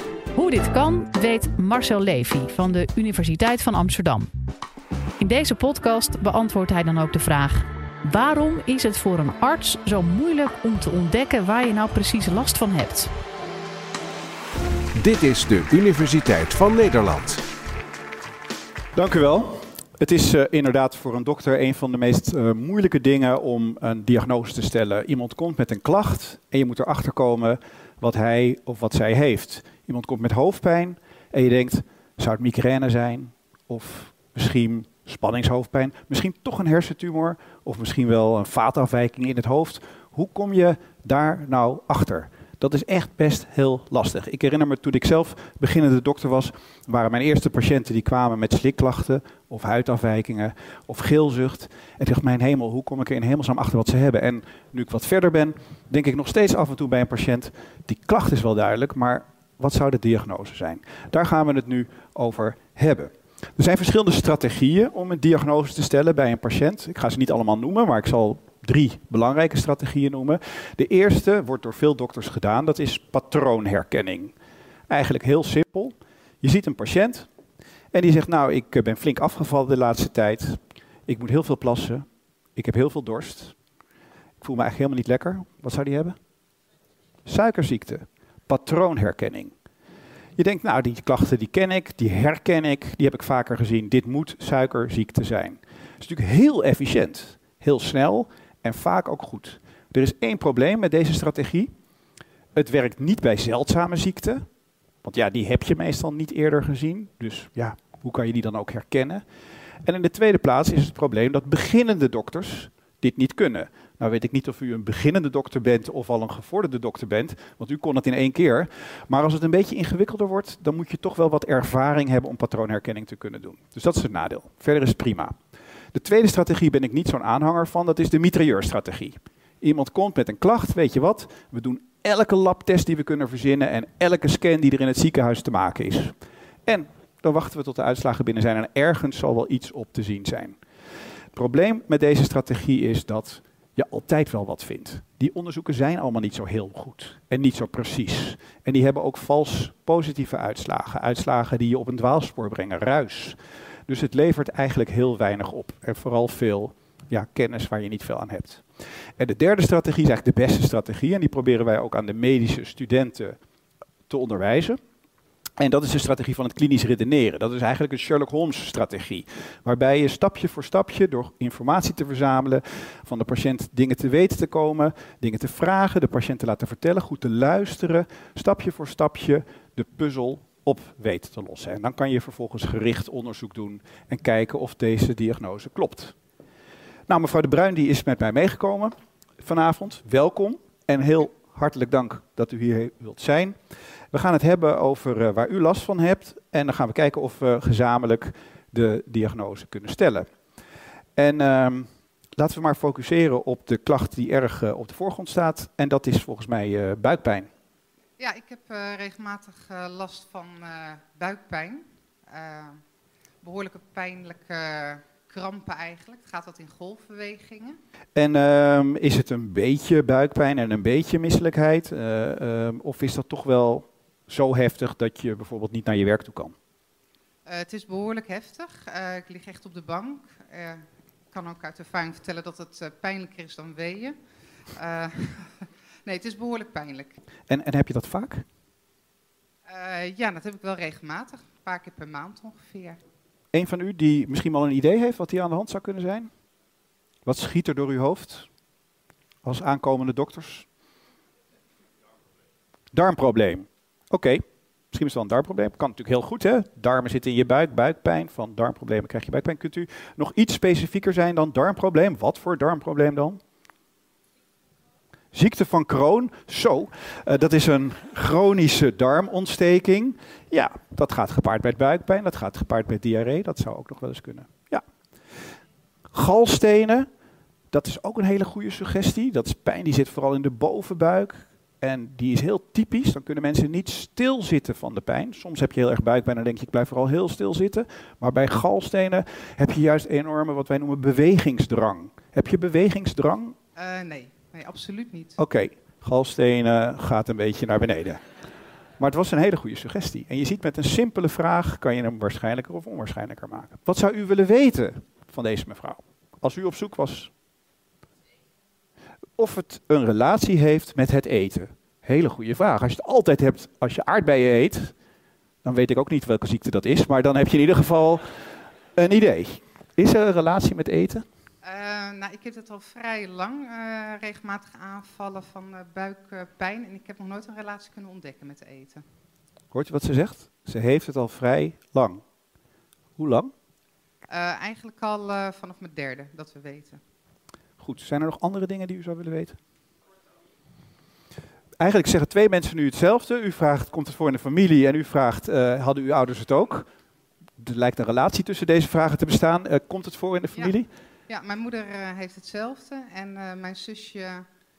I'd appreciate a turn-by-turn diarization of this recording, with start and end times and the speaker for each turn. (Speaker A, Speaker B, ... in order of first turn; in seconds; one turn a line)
Speaker A: 0.3-4.3
Speaker A: 5.2-13.1
Speaker B: 14.9-17.4
Speaker C: 18.9-74.3
Speaker C: 74.9-77.3
Speaker C: 77.9-82.0
Speaker C: 82.5-83.5
Speaker C: 84.4-86.2
Speaker C: 87.3-89.5
Speaker C: 90.4-101.7
Speaker C: 102.5-104.4
Speaker C: 105.0-109.2
Speaker C: 109.8-125.3
Speaker C: 125.9-136.1
Speaker C: 136.7-140.6
Speaker C: 141.3-153.4
Speaker C: 153.9-158.6
Speaker C: 159.2-163.3
Speaker C: 164.1-164.8
Speaker C: 165.6-186.1
Speaker C: 187.1-193.6
Speaker C: 194.1-200.2
Speaker C: 201.2-207.5
Speaker D: 208.2-212.8
Speaker D: 213.4-217.8
Speaker C: 218.2-226.5
Speaker D: 227.4-234.1
Speaker D: 234.8-237.2
Speaker C: 237.5-238.4
Speaker D: 239.7-243.0
Speaker C: 243.5-246.3
Speaker C: 247.2-248.5
Speaker C: 249.4-250.7
Speaker C: 252.9-263.4
Speaker C: 265.3-274.8
Speaker C: 276.1-277.1
Speaker C: 277.7-293.5
Speaker D: 293.8-295.4
Speaker C: 295.4-298.2
Speaker C: 299.0-307.3
Speaker C: 309.4-314.9
Speaker C: 315.6-318.2
Speaker C: 318.9-321.2
Speaker D: 321.6-329.0
Speaker C: 329.7-332.2
Speaker C: 333.2-333.5
Speaker D: 334.3-337.0
Speaker C: 337.8-339.6
Speaker C: 341.8-346.9
Speaker C: 347.6-350.9
Speaker D: 351.3-354.4